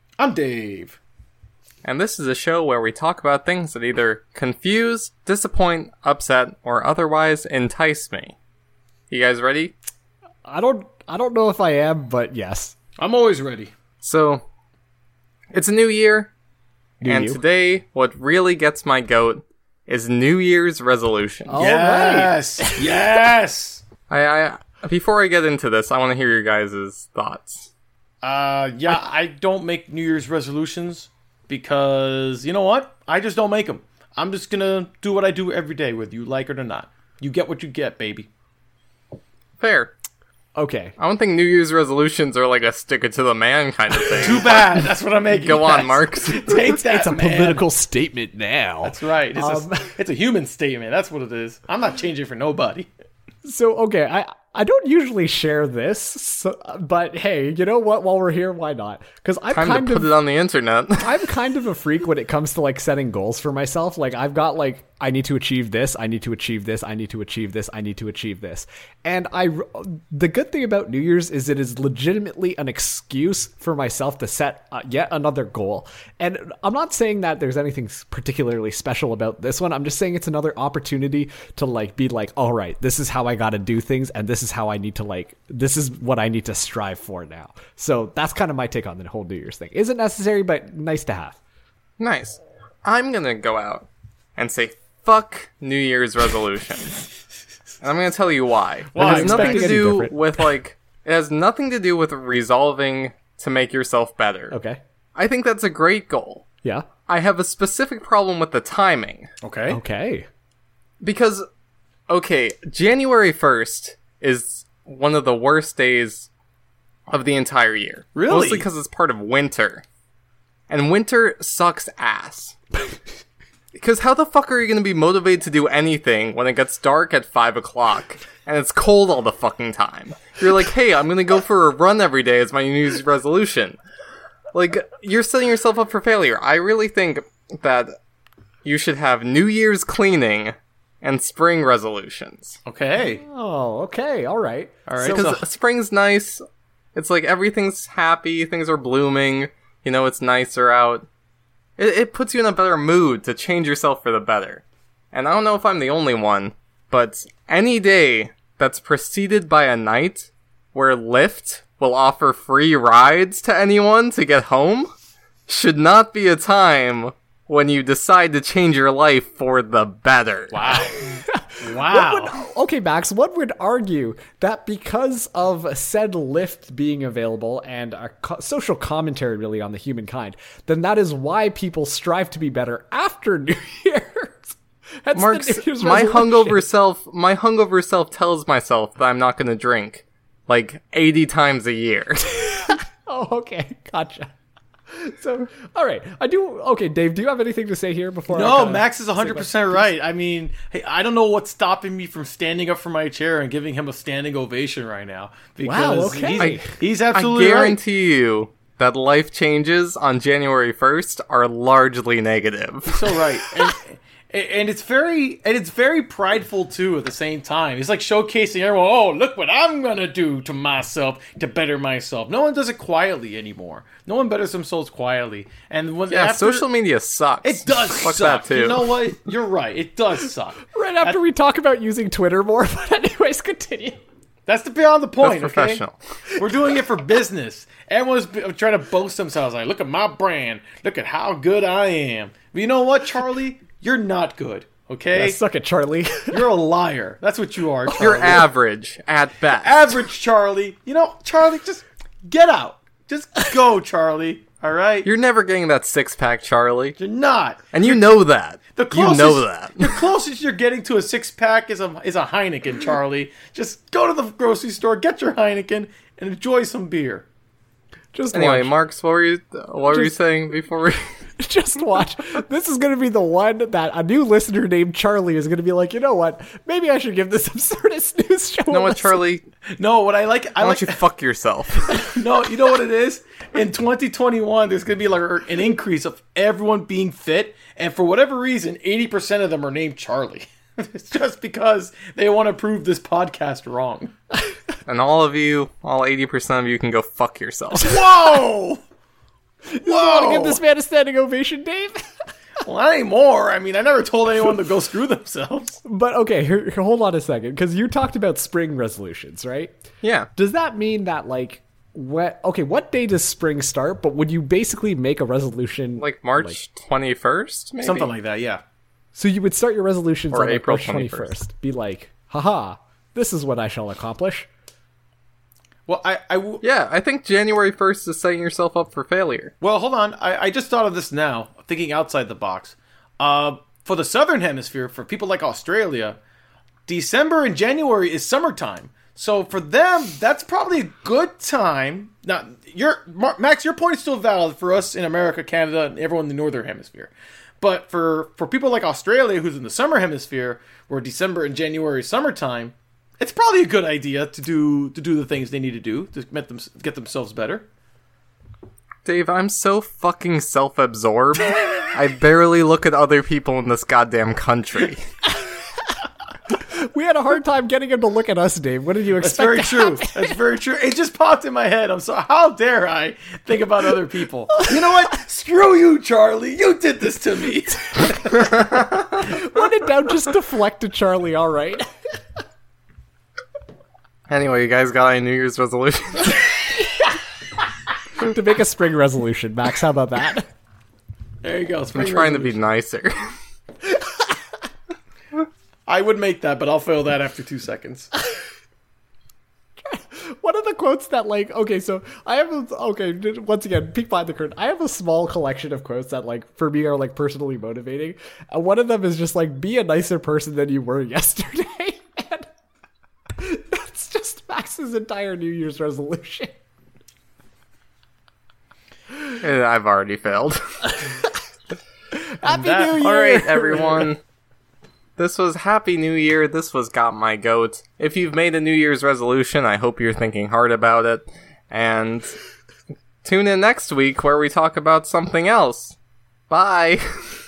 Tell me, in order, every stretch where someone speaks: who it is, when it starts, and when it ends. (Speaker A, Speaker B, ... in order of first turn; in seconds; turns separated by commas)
Speaker A: 0.2-1.0, Speaker B: 1.8-8.4, Speaker B: 9.1-9.8, Speaker C: 10.4-12.8, Speaker A: 13.0-13.7, Speaker B: 14.0-14.4, Speaker B: 15.5-16.3, Speaker C: 17.0-17.4, Speaker B: 17.0-21.6, Speaker C: 21.5-23.0, Speaker A: 21.6-23.9, Speaker B: 24.1-27.7, Speaker A: 28.2-38.3, Speaker B: 39.6-39.9, Speaker C: 40.6-41.0, Speaker B: 41.0-44.7, Speaker A: 44.2-47.6, Speaker B: 45.3-46.7, Speaker C: 46.8-49.9, Speaker A: 48.8-52.9, Speaker C: 53.4-60.1, Speaker B: 59.5-61.3, Speaker C: 61.0-91.4, Speaker B: 92.0-96.9, Speaker B: 97.8-104.6, Speaker A: 98.9-99.8, Speaker C: 99.0-100.3, Speaker C: 104.5-104.8, Speaker B: 105.2-106.4, Speaker B: 107.1-109.3, Speaker A: 109.4-109.8, Speaker C: 109.7-110.3, Speaker B: 111.0-111.5, Speaker B: 112.1-116.3, Speaker B: 117.1-119.8, Speaker A: 118.1-118.7, Speaker B: 120.7-122.6, Speaker B: 123.8-133.8, Speaker B: 134.5-137.9, Speaker B: 138.6-142.6, Speaker A: 142.7-143.2, Speaker C: 143.1-145.3, Speaker A: 144.9-145.4, Speaker B: 145.0-146.4, Speaker B: 146.9-151.1, Speaker B: 151.8-164.9, Speaker B: 165.5-170.8, Speaker A: 170.5-171.1, Speaker C: 171.1-186.6, Speaker A: 171.6-172.4, Speaker B: 185.2-192.7, Speaker C: 193.1-194.3, Speaker C: 195.0-199.9, Speaker A: 198.3-207.8, Speaker C: 205.6-206.6, Speaker B: 206.4-213.1, Speaker A: 212.9-226.7, Speaker B: 226.1-228.9, Speaker A: 227.4-231.2, Speaker C: 230.7-234.0, Speaker A: 234.5-235.8, Speaker B: 235.2-235.9, Speaker A: 236.4-245.4, Speaker C: 245.1-246.5, Speaker A: 246.3-248.5, Speaker B: 248.0-249.8, Speaker A: 249.5-255.1, Speaker B: 255.0-257.0, Speaker A: 257.0-258.1, Speaker B: 257.7-260.1, Speaker A: 258.8-267.2, Speaker C: 268.1-268.7, Speaker B: 268.3-271.0, Speaker C: 269.9-270.2, Speaker C: 271.4-279.2, Speaker B: 278.7-279.4, Speaker A: 279.8-281.0, Speaker B: 280.6-282.1, Speaker A: 281.9-294.1, Speaker B: 294.9-298.0, Speaker A: 297.8-298.8, Speaker C: 299.7-302.0, Speaker A: 299.9-300.6, Speaker A: 302.6-305.8, Speaker C: 305.9-309.7, Speaker B: 310.0-310.3, Speaker C: 310.4-316.6, Speaker B: 316.0-318.1, Speaker A: 317.8-318.6, Speaker C: 319.1-324.5, Speaker B: 320.3-321.4, Speaker A: 325.9-326.6, Speaker B: 326.6-329.5, Speaker A: 329.6-336.2, Speaker A: 336.9-357.7, Speaker B: 359.1-365.0, Speaker C: 366.5-370.4, Speaker A: 369.2-378.7, Speaker C: 379.1-381.9, Speaker B: 384.3-386.7, Speaker C: 388.2-390.5, Speaker A: 391.4-392.6, Speaker B: 391.9-393.2, Speaker A: 395.9-398.1, Speaker C: 399.9-412.5, Speaker C: 413.4-416.6, Speaker B: 419.4-420.6, Speaker C: 422.1-424.1, Speaker A: 422.4-423.0, Speaker B: 422.9-424.2, Speaker B: 425.2-432.3, Speaker B: 433.2-436.0, Speaker B: 436.5-437.0